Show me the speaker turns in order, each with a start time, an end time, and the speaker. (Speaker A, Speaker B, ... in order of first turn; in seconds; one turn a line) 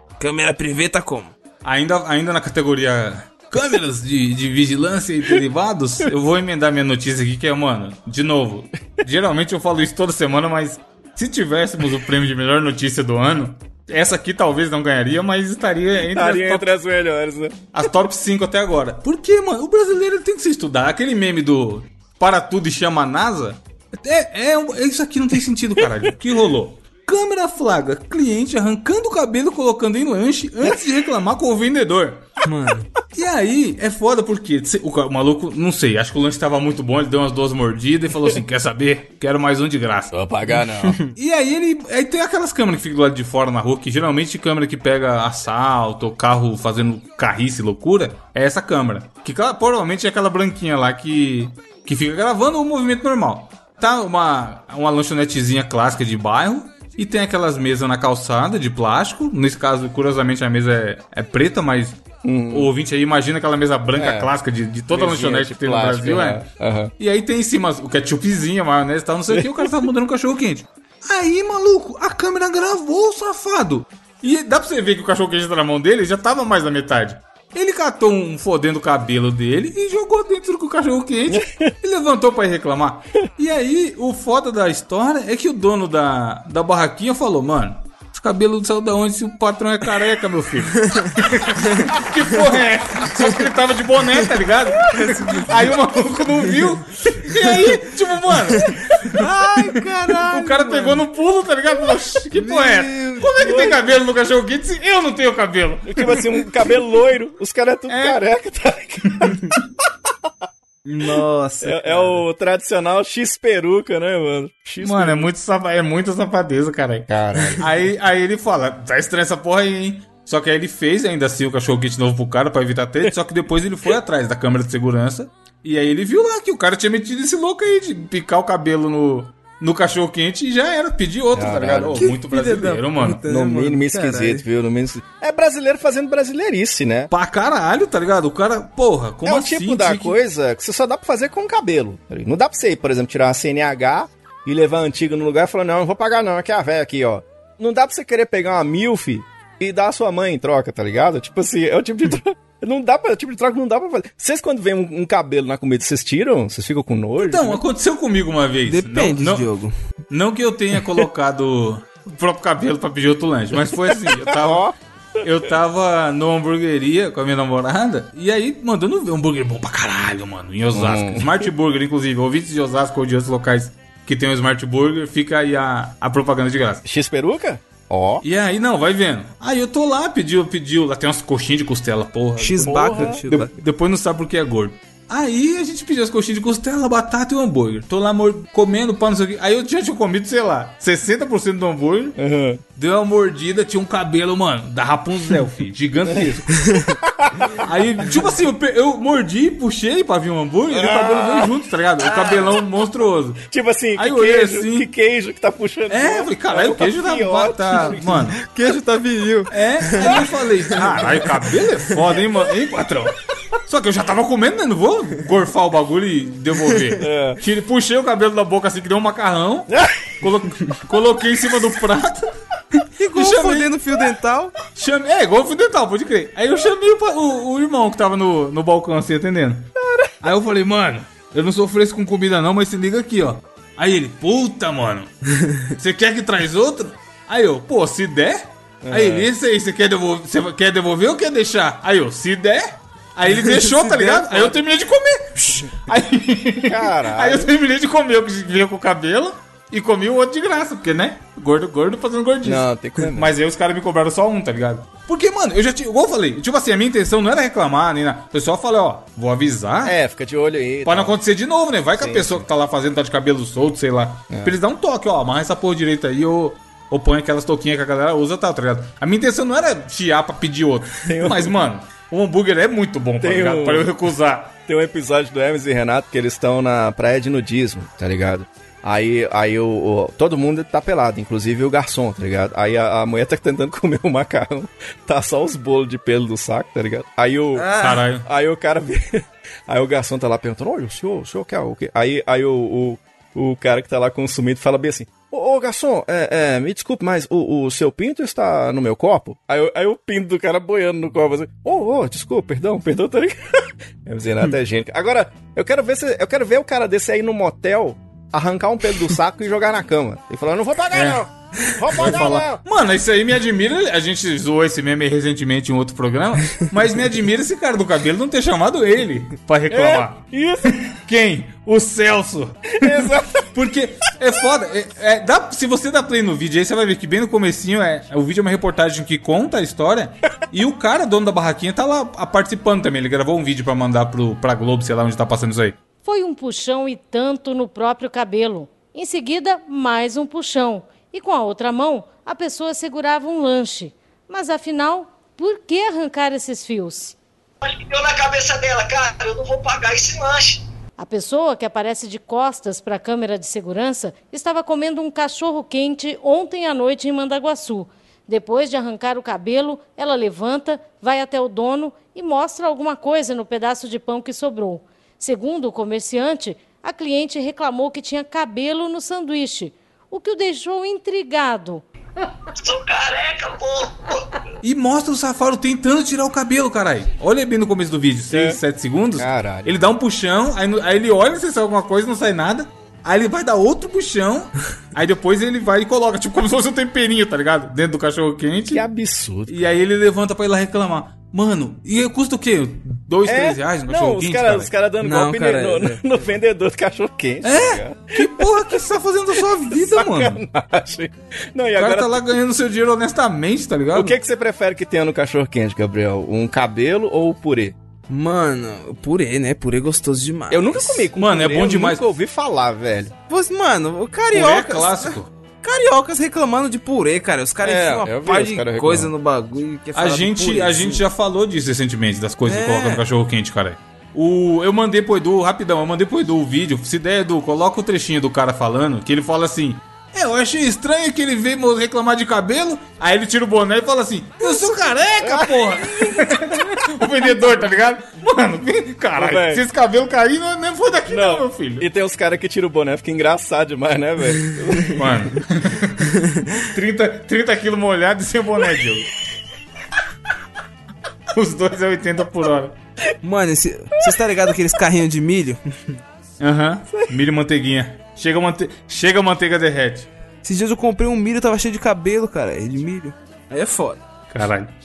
Speaker A: 0.2-1.3
Speaker B: 1.6-16.7
Speaker C: 16.0-17.6
Speaker B: 17.7-32.2
Speaker A: 32.4-32.9
Speaker B: 33.1-40.1
Speaker C: 40.1-41.0
Speaker A: 40.8-41.1
Speaker B: 41.1-62.0
Speaker C: 62.2-62.7
Speaker B: 62.5-66.4
Speaker C: 64.0-64.3
Speaker C: 64.9-66.9
Speaker B: 67.0-106.5
Speaker C: 69.3-69.7
Speaker C: 81.3-81.7
Speaker A: 90.9-91.9
Speaker A: 94.9-95.5
Speaker A: 98.8-101.0
Speaker A: 102.3-103.7
Speaker C: 103.4-103.8
Speaker C: 105.9-109.3
Speaker B: 107.9-108.2
Speaker B: 109.1-109.6
Speaker A: 110.8-112.2
Speaker C: 111.6-115.3
Speaker B: 114.8-133.2
Speaker C: 117.1-117.7
Speaker C: 131.3-132.1
Speaker A: 132.0-134.4
Speaker C: 133.2-137.1
Speaker B: 137.1-140.2
Speaker C: 139.2-157.6
Speaker B: 157.2-159.5
Speaker A: 158.7-159.7
Speaker B: 160.1-176.8
Speaker C: 163.9-164.7
Speaker C: 170.7-171.5
Speaker C: 176.8-178.2
Speaker B: 178.2-192.2
Speaker A: 182.4-183.5
Speaker C: 182.6-183.2
Speaker C: 192.2-192.6
Speaker B: 192.8-196.8
Speaker C: 197.0-197.7
Speaker B: 197.5-203.4
Speaker C: 200.7-202.6
Speaker C: 203.5-208.3
Speaker B: 203.9-204.9
Speaker B: 205.9-208.4
Speaker A: 208.4-210.2
Speaker B: 209.5-222.3
Speaker C: 217.0-217.4
Speaker C: 219.7-220.0
Speaker A: 222.9-224.5
Speaker B: 223.1-223.7
Speaker B: 224.7-235.1
Speaker B: 235.6-259.9
Speaker C: 238.8-239.3
Speaker A: 243.3-244.6
Speaker C: 246.6-247.5
Speaker C: 252.4-253.3
Speaker C: 259.8-261.1
Speaker B: 260.8-274.5
Speaker C: 262.0-262.4
Speaker C: 264.3-264.6
Speaker C: 271.0-271.6
Speaker C: 273.2-273.9
Speaker C: 274.7-287.7
Speaker A: 287.6-288.0
Speaker B: 287.8-288.2
Speaker C: 288.2-312.6
Speaker B: 310.9-311.2
Speaker B: 311.9-335.8
Speaker C: 319.7-320.8
Speaker C: 322.8-323.5
Speaker D: 336.0-347.1
Speaker E: 347.6-350.6
Speaker D: 351.0-371.8
Speaker E: 372.5-374.4
Speaker B: 374.6-388.8
Speaker C: 378.3-378.6
Speaker C: 379.1-379.8
Speaker C: 388.7-389.8
Speaker B: 389.5-394.7
Speaker C: 393.2-398.7
Speaker A: 395.0-396.0
Speaker B: 397.4-400.4
Speaker C: 399.3-402.3
Speaker B: 401.8-404.1
Speaker C: 403.9-407.8
Speaker A: 408.1-411.1
Speaker C: 410.5-413.1
Speaker B: 411.2-412.0
Speaker A: 413.3-421.0
Speaker B: 414.3-415.3
Speaker C: 417.6-419.1
Speaker B: 419.9-441.9
Speaker A: 422.4-423.0
Speaker C: 435.2-436.6
Speaker C: 439.1-439.6
Speaker C: 441.1-445.1
Speaker B: 444.9-449.1
Speaker A: 446.1-446.6
Speaker B: 451.3-452.8
Speaker A: 453.2-456.0
Speaker B: 456.4-460.1
Speaker A: 460.4-464.0
Speaker B: 464.3-464.7